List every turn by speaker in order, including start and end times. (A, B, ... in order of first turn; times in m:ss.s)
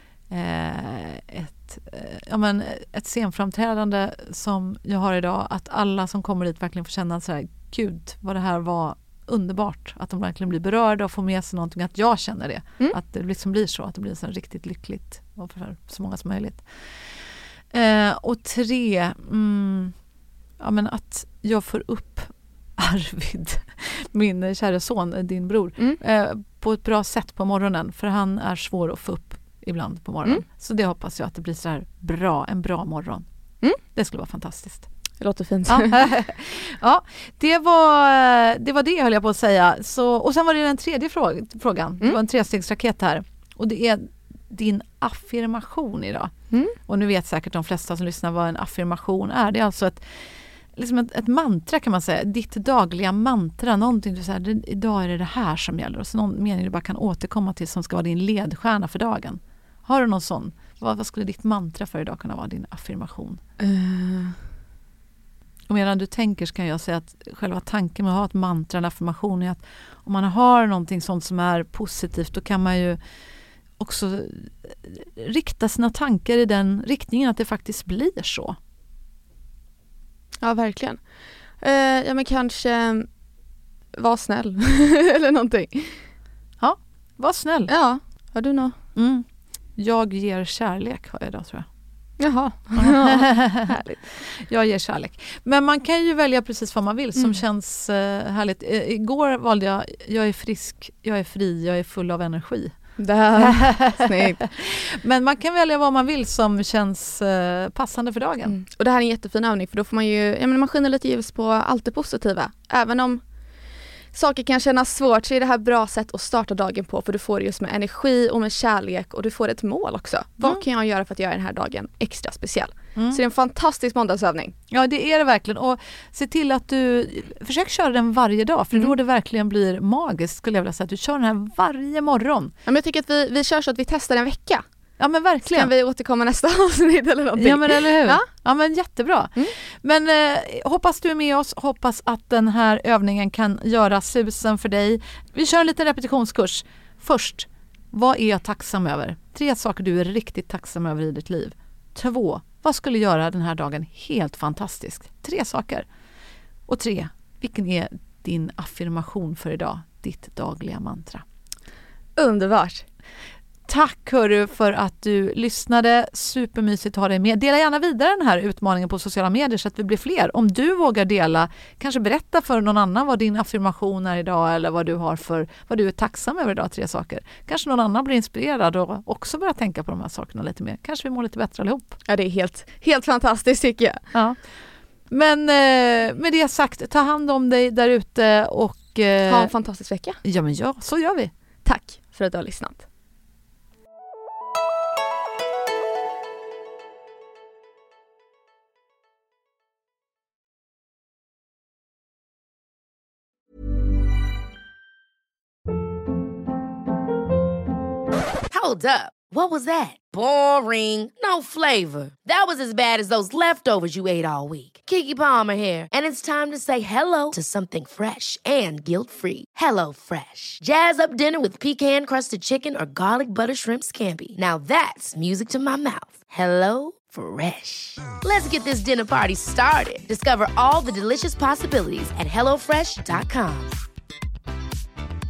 0:00.3-0:16.6 A
0:17.7-0:20.0 A
0:20.6-0:33.2 A
0:33.8-0:34.9 A
0:35.2-0:36.1 B
0:35.7-0:46.3 A
0:46.5-0:46.8 B
0:46.8-1:03.4 A
1:03.6-1:04.4 B
1:05.7-1:13.0 A
1:13.8-1:18.6 A
1:20.4-1:23.1 B
1:23.9-1:26.1 B
1:26.6-1:27.7 A
1:27.7-1:28.8 B
1:29.0-1:31.7 A
1:32.2-1:34.0 B
1:32.8-1:33.8 A
1:34.4-1:42.8 A
1:37.1-1:37.4 B
1:43.0-1:44.4 B
1:43.4-1:48.5 A
1:48.4-2:04.5 B
2:02.9-2:03.2 A
2:04.7-2:12.5 A
2:12.6-2:14.6 B
2:15.0-2:15.7 A
2:15.4-2:18.3 B
2:17.4-2:35.9 A
2:36.7-2:41.2 A
2:42.1-2:42.8 B
2:43.7-3:02.0 A
3:02.0-3:04.0 B
3:04.1-3:04.4 A
3:05.1-3:09.5 A
3:09.2-3:10.2 B
3:10.2-3:11.3 A
3:11.6-3:12.8 B
3:28.5-3:53.7 C